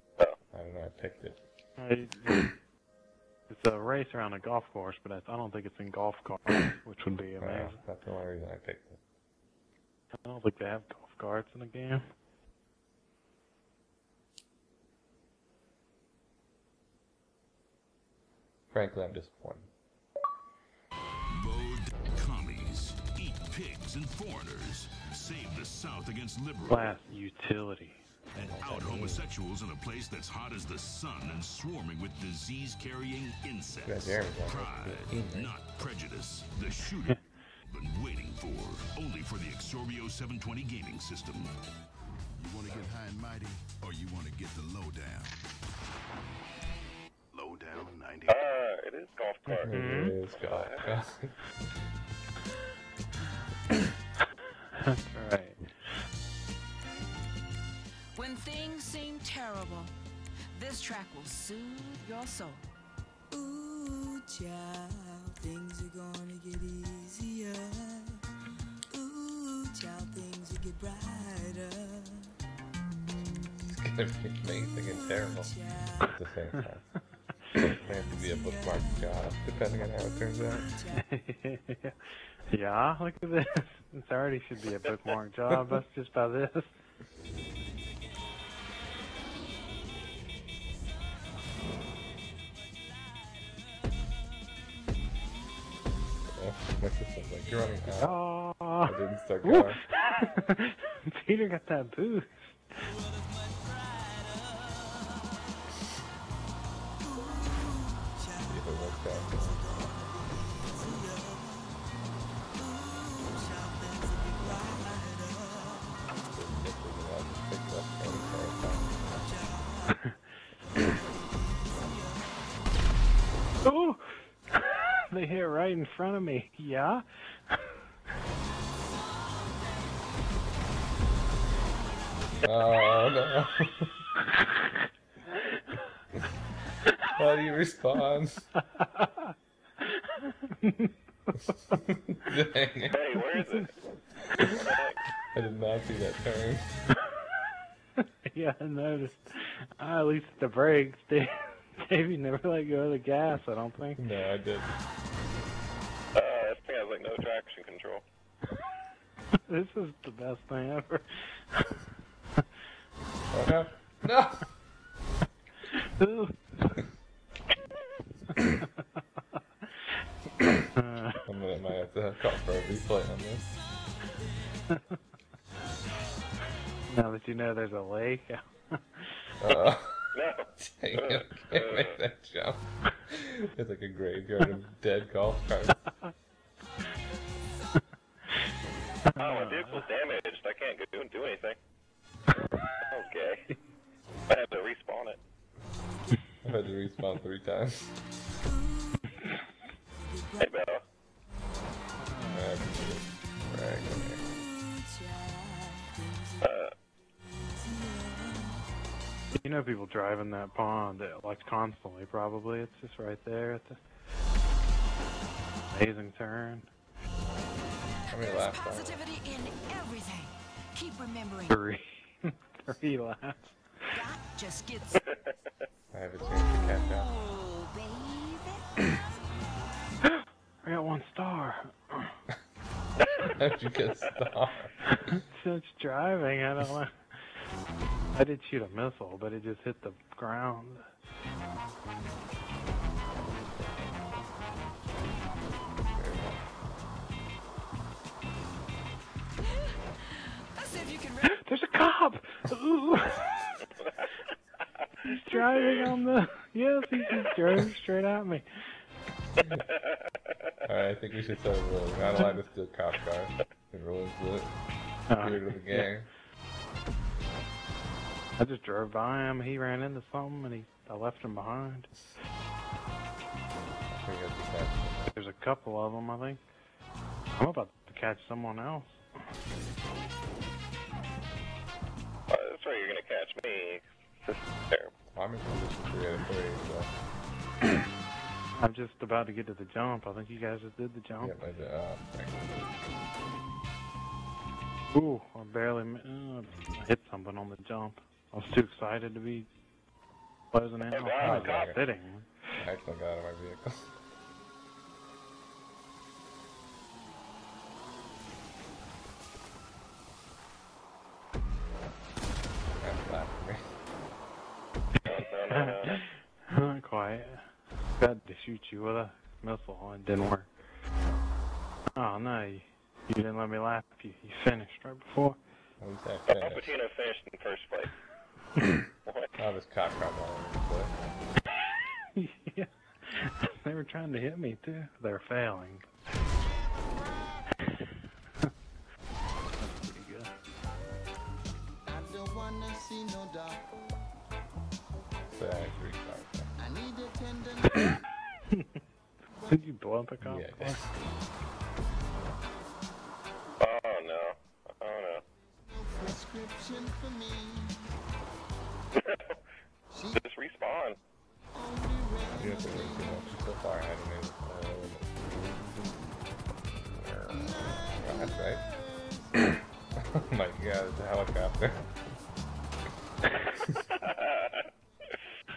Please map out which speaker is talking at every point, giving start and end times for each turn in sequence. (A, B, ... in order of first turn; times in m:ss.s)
0:00.5-0:01.4 A
0:01.8-0:02.5 B
0:03.5-0:07.8 B
0:07.4-0:09.0 A
0:10.2-0:12.0 B
0:18.7-0:19.7 A
0:21.3-0:26.9 C
0:26.7-0:28.0 B
0:28.4-0:37.2 C
0:28.4-0:29.2 A
0:33.8-0:35.5 A
0:37.7-0:41.5 C
0:42.4-0:45.4 D
0:47.3-0:48.5 D
0:48.3-0:49.7 E
0:49.5-0:50.2 B
0:49.6-0:51.4 A
0:50.3-0:50.9 E
0:54.7-0:55.7 B
0:58.2-0:59.9 F
1:00.5-1:02.6 F
1:04.2-1:08.0 G
1:09.3-1:11.7 G
1:13.6-1:16.9 A
1:17.5-1:20.8 A
1:21.0-1:22.0 B
1:22.5-1:26.7 B
1:36.3-1:38.2 A
1:38.0-1:38.9 B
1:38.8-1:39.8 A
1:39.4-1:42.6 B
1:48.4-1:50.0 A
1:56.1-1:59.4 A
1:59.9-2:00.2 B
2:03.6-2:07.0 B
2:12.4-2:13.9 A
2:17.1-2:18.5 A
2:18.7-2:19.3 B
2:19.8-2:20.9 B
2:21.5-2:21.7 B
2:22.1-2:23.0 A
2:22.9-2:23.7 E
2:23.2-2:23.7 B
2:24.5-2:25.0 E
2:25.3-2:26.8 A
2:28.3-2:34.0 B
2:34.0-2:34.7 A
2:36.2-2:38.0 E
2:39.5-2:41.8 B
2:43.3-2:44.5 A
2:45.7-2:46.8 B
2:48.4-2:48.8 B
2:50.7-2:51.2 B
2:51.3-2:53.5 A
2:54.7-2:55.0 B
2:56.9-2:59.2 B
2:59.4-3:05.8 A
3:00.1-3:02.0 E
3:09.1-3:09.9 B
3:09.2-3:11.6 E
3:12.9-3:13.5 E
3:14.3-3:15.2 E
3:16.4-3:17.9 A
3:20.4-3:20.8 E
3:22.0-3:22.5 B
3:22.3-3:24.3 A
3:26.4-3:26.7 E
3:29.4-3:33.8 B
3:35.7-3:36.7 B
3:38.1-3:39.0 A
3:38.1-3:41.6 F
3:41.5-3:43.6 B
3:43.9-3:45.0 F
3:45.0-3:45.3 E
3:45.9-3:47.1 A
3:46.9-3:48.6 F
3:50.1-3:52.2 B
3:53.3-3:54.8 A
3:55.0-3:56.9 B
3:58.1-4:00.9 B
4:03.5-4:03.9 A
4:05.9-4:06.5 A
4:10.5-4:11.4 F
4:11.2-4:13.6 B
4:15.0-4:18.4 B
4:19.4-4:19.9 E
4:20.6-4:24.6 A
4:25.1-4:25.9 B
4:25.2-4:26.1 A
4:28.4-4:32.0 B
4:33.9-4:35.2 A
4:35.1-4:36.4 B
4:37.3-4:39.0 B
4:42.3-4:44.9 E
4:45.1-4:46.9 A
4:48.6-4:51.4 B
4:51.2-4:52.7 A
4:54.9-4:59.5 B
5:00.5-5:02.3 B
5:00.9-5:01.7 E
5:01.2-5:01.8 A
5:02.6-5:03.9 A
5:12.8-5:13.6 A
5:15.0-5:16.0 E
5:15.2-5:20.5 B
5:22.0-5:25.4 B
5:25.8-5:26.8 A
5:26.3-5:27.9 E
5:29.0-5:29.3 E
5:29.4-5:30.9 A
5:32.2-5:35.8 B
5:39.6-5:40.3 B
5:45.3-5:46.6 A
5:49.5-5:50.8 B
5:50.2-5:51.0 A
5:53.6-5:55.2 E
5:59.0-5:59.4 E
6:00.1-6:01.0 E
6:02.3-6:05.9 A
6:07.0-6:08.6 A
6:10.0-6:11.9 A
6:14.0-6:14.7 E